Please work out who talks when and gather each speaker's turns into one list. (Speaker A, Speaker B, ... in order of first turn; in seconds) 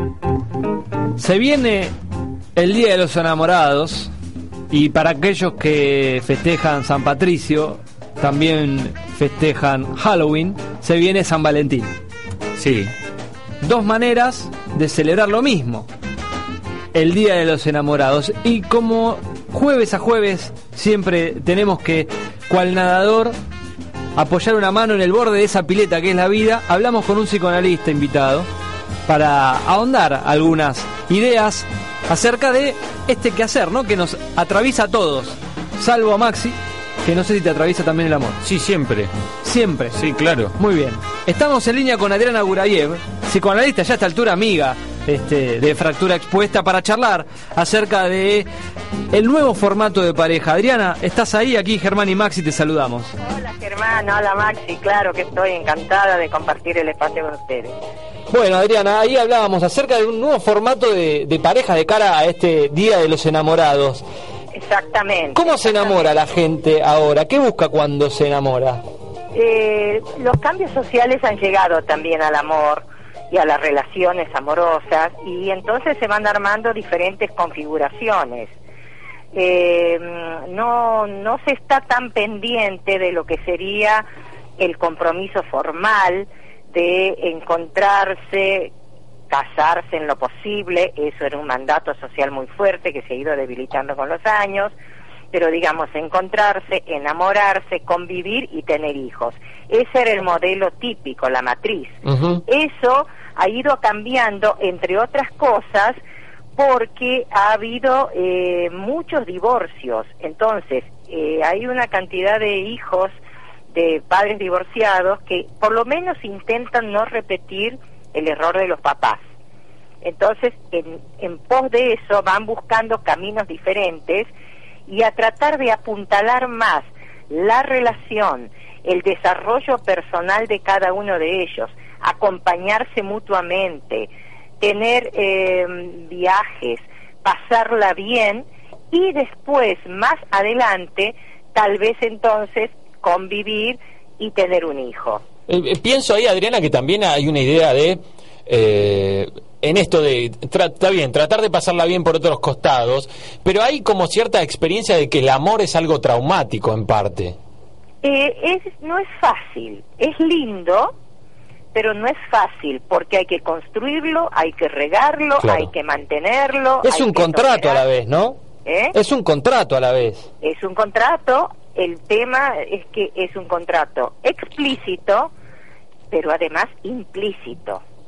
Speaker A: 1.2-1.9, 2.6-4.1, 4.7-11.9, 13.6-15.9, 16.9-23.4, 24.2-28.5, 29.1-38.4, 39.4-40.0, 40.6-48.5, 49.1-53.1, 58.3-64.0, 65.3-68.8, 166.8-168.4, 168.9-170.3
Speaker B: 12.6-12.9, 38.4-39.1, 39.9-40.5, 102.1-102.4, 145.5-157.4, 165.4-165.7
Speaker C: 53.2-57.8, 64.5-66.1, 69.3-78.5, 79.3-84.0, 84.6-88.7, 89.3-94.7, 95.3-106.0, 106.6-113.2, 113.7-119.2, 120.0-124.3, 124.9-145.2, 158.0-160.9, 161.7-167.8, 168.7-168.9, 170.4-175.3, 176.1-177.8